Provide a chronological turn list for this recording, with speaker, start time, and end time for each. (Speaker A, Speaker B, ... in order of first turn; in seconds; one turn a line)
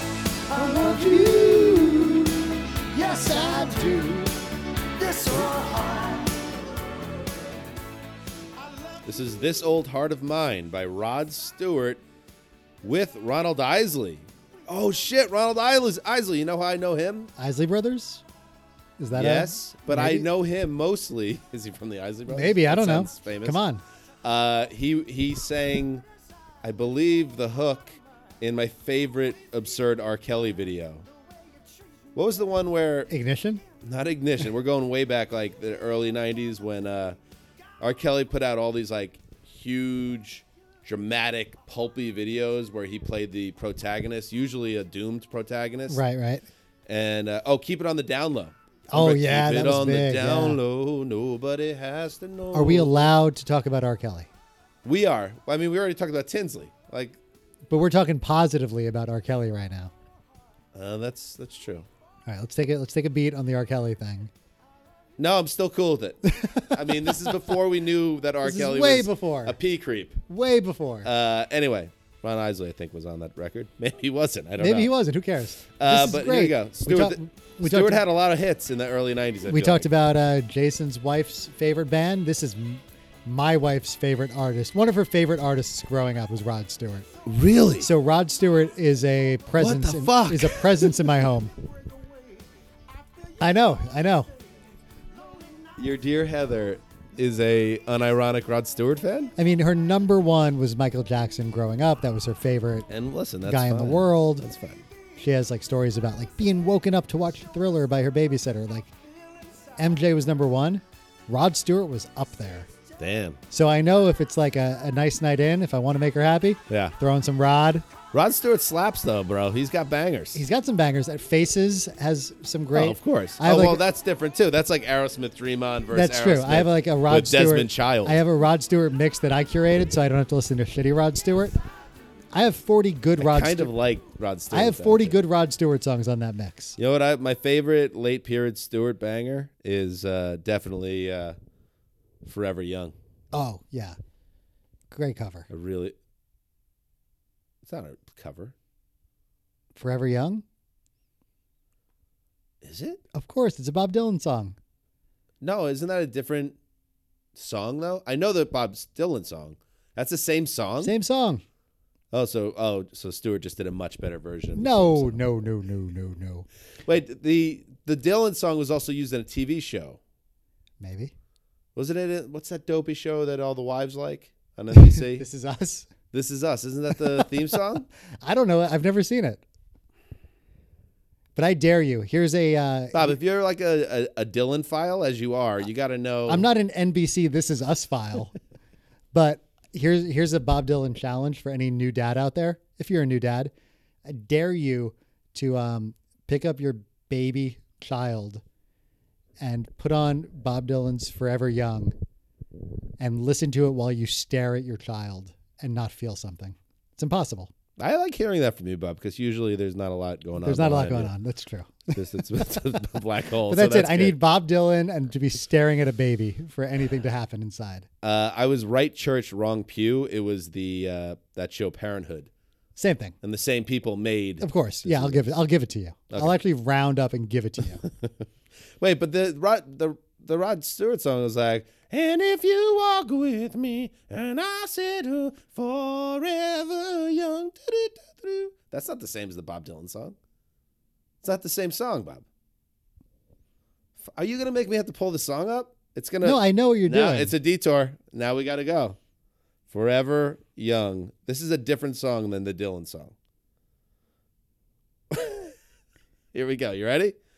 Speaker A: 0.5-2.3
Speaker B: 0.6-2.3
Speaker A: 2.9-4.3
Speaker B: 3.0-4.3
Speaker A: 5.0-6.4
Speaker C: 9.1-12.0
Speaker C: 12.8-17.3
Speaker B: 17.4-18.2
Speaker B: 19.0-20.3
Speaker C: 19.1-23.6
Speaker B: 22.3-23.8
Speaker C: 24.2-26.1
Speaker C: 26.6-31.1
Speaker C: 32.1-33.1
Speaker B: 33.1-33.6
Speaker C: 33.8-37.2
Speaker C: 37.8-46.0
Speaker B: 45.9-46.5
Speaker C: 46.9-53.2
Speaker B: 48.9-50.6
Speaker B: 52.5-54.3
Speaker C: 54.9-57.2
Speaker B: 57.7-59.9
Speaker C: 60.7-61.9
Speaker B: 62.3-64.3
Speaker C: 65.2-70.2
Speaker B: 66.3-67.5
Speaker B: 68.4-69.6
Speaker B: 70.3-71.1
Speaker C: 71.0-75.0
Speaker B: 74.6-78.0
Speaker C: 75.8-79.9
Speaker B: 79.5-87.1
Speaker C: 87.2-87.9
Speaker B: 87.8-91.5
Speaker C: 89.6-91.1
Speaker B: 93.4-94.3
Speaker C: 95.8-99.3
Speaker B: 99.4-102.9
Speaker C: 102.9-104.9
Speaker B: 103.5-104.5
Speaker B: 105.2-108.9
Speaker B: 109.8-112.7
Speaker C: 113.0-113.4
Speaker B: 113.5-117.9
Speaker C: 116.7-117.0
Speaker C: 118.1-120.4
Speaker B: 120.3-123.8
Speaker C: 122.7-128.2
Speaker B: 125.9-131.6
Speaker B: 132.3-133.7
Speaker C: 133.2-135.2
Speaker B: 134.5-136.8
Speaker C: 136.8-141.4
Speaker C: 142.2-142.9
Speaker B: 143.3-144.0
Speaker B: 144.9-145.5
Speaker C: 145.5-146.0
Speaker C: 147.6-148.6
Speaker B: 149.8-150.4
Speaker C: 152.6-153.0
Speaker B: 153.1-154.6
Speaker C: 155.4-156.6
Speaker C: 157.3-160.9
Speaker B: 160.8-161.4
Speaker C: 162.1-165.2
Speaker B: 164.6-166.5
Speaker C: 166.9-170.0
Speaker B: 170.8-171.1
Speaker C: 171.8-175.3
Speaker B: 174.7-175.9
Speaker C: 176.1-177.9
Speaker B: 177.0-177.6
Speaker B: 178.2-179.4
Speaker B: 181.4-183.2
Speaker C: 182.9-186.5
Speaker B: 186.3-188.4
Speaker B: 189.1-193.5
Speaker B: 194.1-198.4
Speaker B: 199.4-202.0
Speaker B: 203.0-207.5
Speaker C: 207.8-211.1
Speaker B: 210.4-212.0
Speaker C: 211.9-214.2
Speaker B: 213.5-217.9
Speaker C: 218.0-222.3
Speaker B: 222.8-223.2
Speaker C: 223.2-225.4
Speaker B: 224.4-227.8
Speaker C: 226.1-226.4
Speaker C: 227.8-228.2
Speaker C: 228.8-240.2
Speaker C: 241.2-242.3
Speaker C: 244.0-249.0
Speaker B: 246.2-247.3
Speaker C: 249.7-253.2
Speaker C: 255.1-255.5
Speaker C: 256.3-257.2